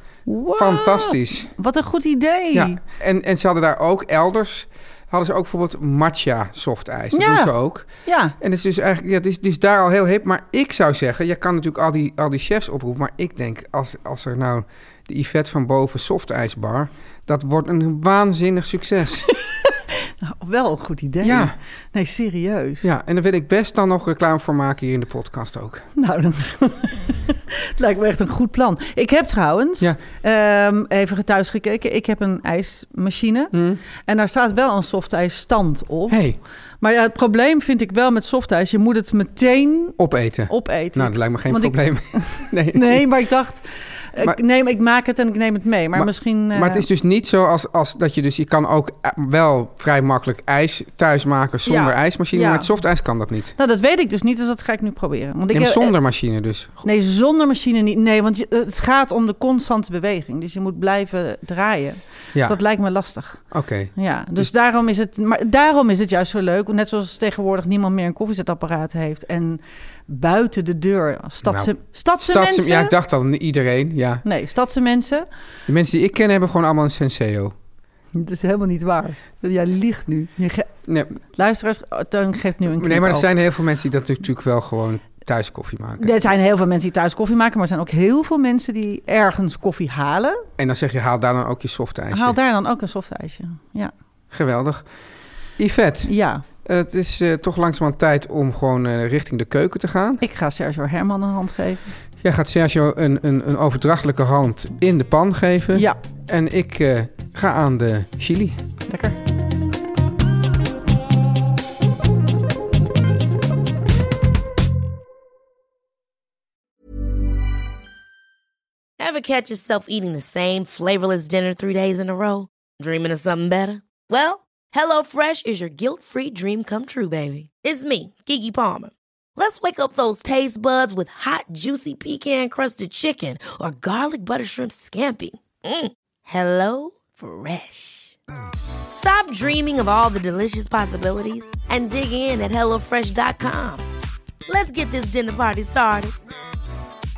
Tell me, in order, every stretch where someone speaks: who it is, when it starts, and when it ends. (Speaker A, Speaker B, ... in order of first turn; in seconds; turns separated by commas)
Speaker A: 0.3-2.8, Speaker B: 0.6-1.5, Speaker B: 2.5-7.9, Speaker A: 7.1-7.5, Speaker A: 8.0-8.3, Speaker B: 8.4-19.3, Speaker A: 19.3-22.9, Speaker B: 21.2-21.6, Speaker B: 22.8-25.9, Speaker A: 25.9-36.2, Speaker B: 33.5-33.8, Speaker B: 36.1-36.4, Speaker A: 36.8-40.0, Speaker B: 40.0-43.1, Speaker A: 40.5-46.9, Speaker B: 45.9-53.5, Speaker A: 51.6-52.7, Speaker A: 53.6-55.9, Speaker B: 55.5-56.8, Speaker A: 56.8-63.4, Speaker B: 63.5-64.5, Speaker A: 64.0-72.9, Speaker B: 71.4-74.2, Speaker A: 74.2-75.2, Speaker B: 75.7-77.5, Speaker A: 78.1-83.3, Speaker B: 80.9-81.2, Speaker B: 82.8-86.2, Speaker A: 86.0-90.4, Speaker B: 90.6-92.4, Speaker A: 92.1-93.9, Speaker B: 94.3-94.9, Speaker B: 95.6-100.2, Speaker A: 96.1-96.4, Speaker A: 100.2-101.9, Speaker B: 102.2-108.6, Speaker A: 108.9-109.2, Speaker C: 119.0-138.2, Speaker C: 138.9-143.8, Speaker C: 144.5-146.1